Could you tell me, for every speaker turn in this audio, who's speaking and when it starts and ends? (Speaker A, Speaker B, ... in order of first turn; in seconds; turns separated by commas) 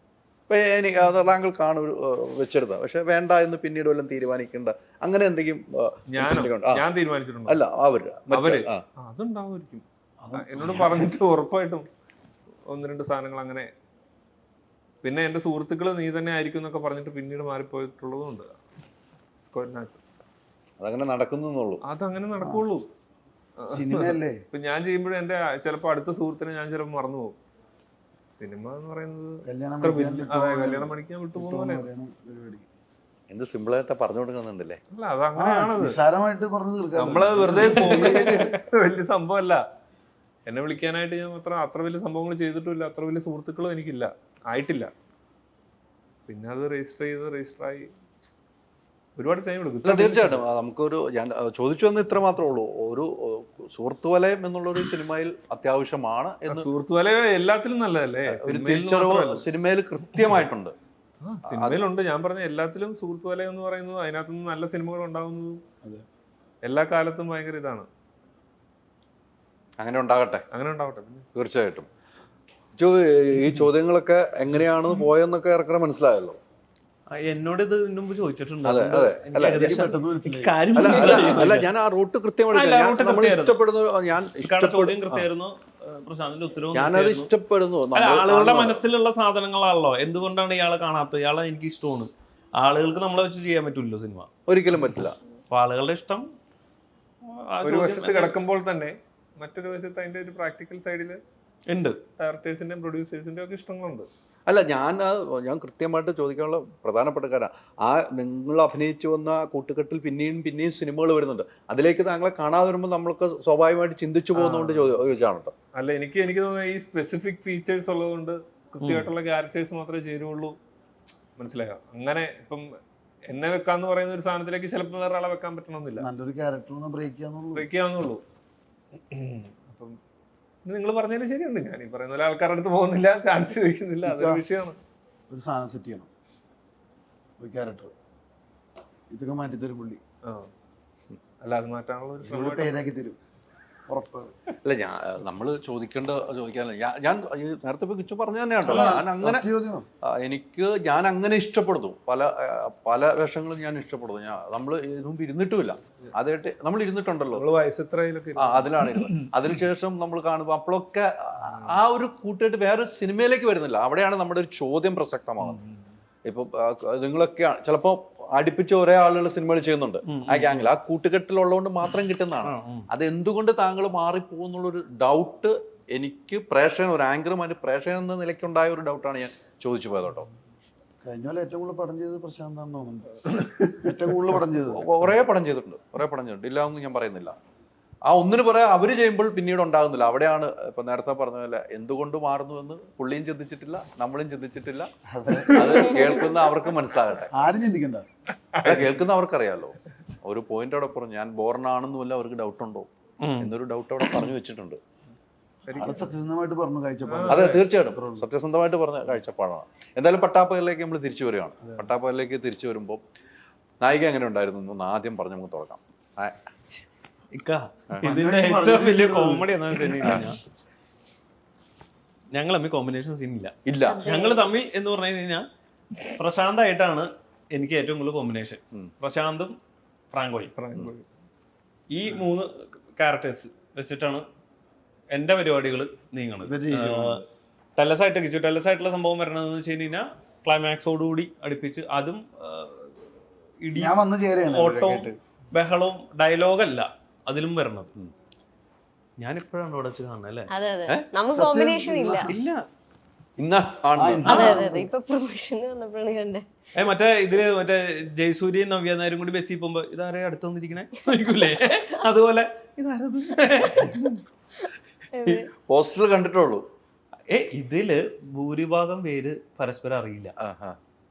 Speaker A: 0.5-6.8, Speaker B: 6.1-7.6, Speaker A: 7.5-8.8, Speaker B: 8.3-11.8, Speaker C: 10.2-11.1, Speaker B: 12.7-13.7, Speaker B: 15.0-18.5, Speaker B: 19.4-20.0, Speaker A: 20.8-21.8, Speaker B: 21.8-22.9, Speaker C: 22.4-22.6, Speaker B: 23.6-27.4, Speaker C: 23.7-24.4, Speaker B: 28.4-31.8, Speaker C: 29.4-32.6, Speaker A: 33.3-34.8, Speaker B: 34.9-35.9, Speaker C: 35.4-38.4, Speaker B: 37.0-39.6, Speaker B: 40.5-44.9, Speaker B: 46.3-47.9, Speaker B: 49.1-50.4, Speaker A: 49.8-56.7, Speaker B: 56.5-59.4, Speaker A: 58.4-60.7, Speaker B: 61.2-65.6, Speaker A: 61.5-61.8, Speaker B: 66.6-67.9, Speaker A: 69.8-70.4, Speaker B: 70.5-71.3, Speaker A: 71.3-71.9, Speaker A: 72.8-76.4, Speaker D: 77.2-81.7, Speaker A: 78.6-79.9, Speaker C: 79.5-81.4, Speaker A: 80.8-85.2, Speaker D: 82.5-83.6, Speaker D: 84.4-87.3, Speaker A: 86.7-88.8, Speaker D: 87.9-94.3, Speaker A: 94.5-95.1, Speaker D: 95.5-96.2, Speaker D: 97.3-98.4, Speaker B: 97.6-101.2, Speaker D: 101.7-102.0, Speaker B: 102.2-104.1, Speaker A: 104.5-115.5, Speaker B: 114.3-115.0, Speaker B: 115.7-120.6, Speaker D: 118.8-119.1, Speaker B: 121.4-122.7, Speaker B: 123.3-126.0, Speaker C: 126.0-127.7, Speaker B: 127.5-128.2, Speaker B: 129.0-130.0, Speaker B: 130.6-134.8, Speaker C: 134.0-134.4, Speaker C: 135.3-136.1, Speaker C: 137.4-137.9, Speaker C: 139.1-140.0, Speaker B: 141.4-142.7, Speaker C: 142.2-143.2, Speaker C: 143.9-144.3, Speaker A: 144.6-149.4, Speaker C: 148.7-149.8, Speaker A: 150.1-157.4, Speaker B: 157.3-159.3, Speaker A: 158.4-165.6, Speaker B: 161.5-161.7, Speaker B: 165.4-165.8, Speaker A: 166.2-180.3, Speaker D: 170.1-170.7, Speaker D: 172.4-172.9, Speaker C: 181.0-184.9, Speaker A: 184.7-187.3, Speaker A: 188.1-194.9, Speaker C: 195.1-195.9, Speaker A: 195.5-197.3, Speaker C: 197.3-198.1, Speaker B: 198.5-198.9, Speaker A: 198.6-202.9, Speaker D: 203.2-203.5, Speaker A: 203.4-204.8, Speaker B: 205.7-206.1, Speaker C: 205.7-208.2, Speaker B: 207.1-207.6, Speaker A: 207.3-213.0, Speaker C: 211.6-211.9, Speaker A: 213.8-216.3, Speaker D: 217.3-220.4, Speaker C: 218.0-219.5, Speaker D: 222.3-223.5, Speaker A: 223.7-224.0, Speaker E: 223.8-224.5, Speaker D: 224.0-225.4, Speaker D: 226.2-229.6, Speaker D: 230.1-230.5, Speaker B: 230.5-231.1, Speaker D: 231.9-234.2, Speaker D: 235.1-237.2, Speaker C: 236.4-237.2, Speaker D: 237.8-242.9, Speaker D: 243.6-247.9, Speaker C: 243.7-245.2, Speaker D: 249.2-250.5, Speaker E: 250.5-252.3, Speaker C: 251.3-252.3, Speaker D: 252.3-252.6, Speaker A: 253.4-254.6, Speaker C: 253.9-254.9, Speaker E: 254.3-256.4, Speaker D: 256.8-264.2, Speaker E: 265.1-265.5, Speaker A: 265.2-266.6, Speaker D: 267.3-270.3, Speaker A: 270.4-270.8